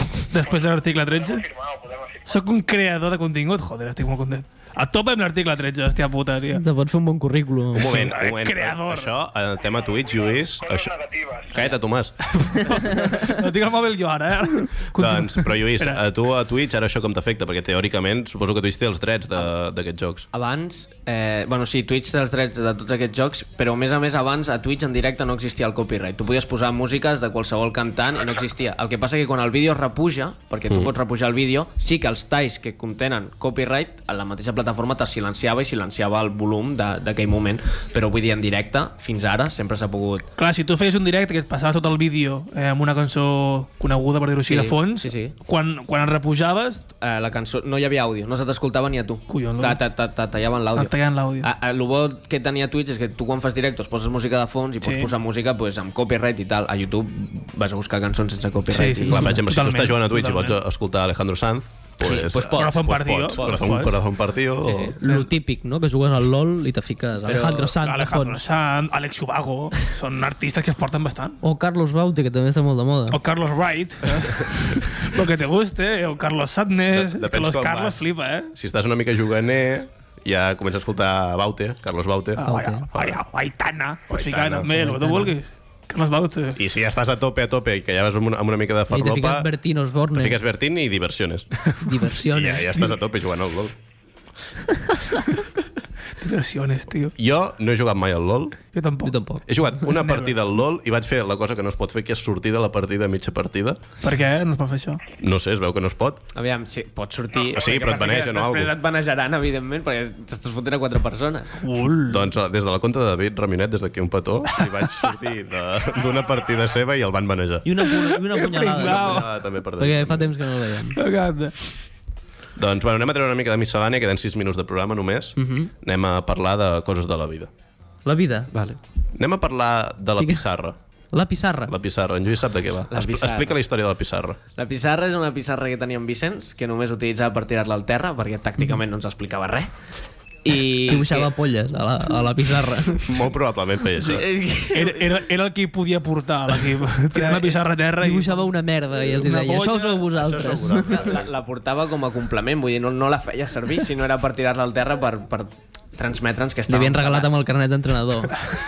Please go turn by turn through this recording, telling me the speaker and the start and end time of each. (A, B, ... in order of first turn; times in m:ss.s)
0:00.3-0:01.4 A
0:00.4-0:02.4 B
0:02.3-0:06.6 A
0:06.6-0:08.1 C
0:07.7-0:10.9 D
0:07.8-0:09.1 A
0:09.7-0:11.7 B
0:11.5-0:12.2 D
0:12.4-0:16.0 A
0:15.0-0:20.3 D
0:20.3-0:40.3 E
0:40.4-0:46.8 A
0:44.5-0:45.4 E
0:47.0-0:59.2 E
0:49.3-0:49.8 A
0:50.8-0:51.5 A
0:54.8-0:55.1 A
0:58.7-1:00.6 A
0:59.1-1:04.9 D
1:02.0-1:02.8 E
1:02.5-1:04.0 A
1:04.6-1:05.0 E
1:05.0-1:08.4 C
1:07.3-1:07.8 E
1:07.8-1:11.4 A
1:11.4-1:13.2 C
1:13.1-1:18.5 A
1:16.9-1:18.0 D
1:18.5-1:23.2 D
1:22.4-1:26.6 A
1:22.4-1:22.9 C
1:24.1-1:24.7 D
1:24.7-1:25.4 C
1:26.6-1:29.5 D
1:28.9-1:30.4 C
1:30.1-1:31.5 D
1:31.8-1:32.9 C
1:32.3-1:33.8 D
1:36.2-1:37.2 A
1:37.2-1:38.6 D
1:38.7-1:39.2 A
1:39.0-1:39.4 C
1:39.5-1:43.8 D
1:39.8-1:40.4 A
1:44.0-1:45.0 A
1:45.2-1:46.2 D
1:46.4-1:51.6 E
1:47.5-1:48.7 D
1:51.6-1:52.3 A
1:52.1-1:57.9 D
1:57.6-1:59.3 C
1:57.9-1:59.3 A
1:58.7-2:00.4 D
1:59.8-2:01.0 C
2:01.0-2:01.6 A
2:02.6-2:07.5 D
2:05.4-2:05.7 C
2:08.0-2:08.5 C
2:08.5-2:08.8 E
2:09.2-2:10.8 D
2:10.2-2:10.4 C
2:11.1-2:11.7 C
2:11.7-2:14.4 D
2:12.9-2:13.6 E
2:14.6-2:19.7 E
2:20.4-2:21.3 E
2:20.9-2:23.0 C
2:23.0-2:24.2 D
2:24.0-2:25.2 E
2:24.0-2:28.5 A
2:27.2-2:27.5 E
2:28.0-2:31.0 C
2:29.0-2:30.1 A
2:30.1-2:31.3 D
2:30.9-2:37.3 E
2:36.7-2:38.4 C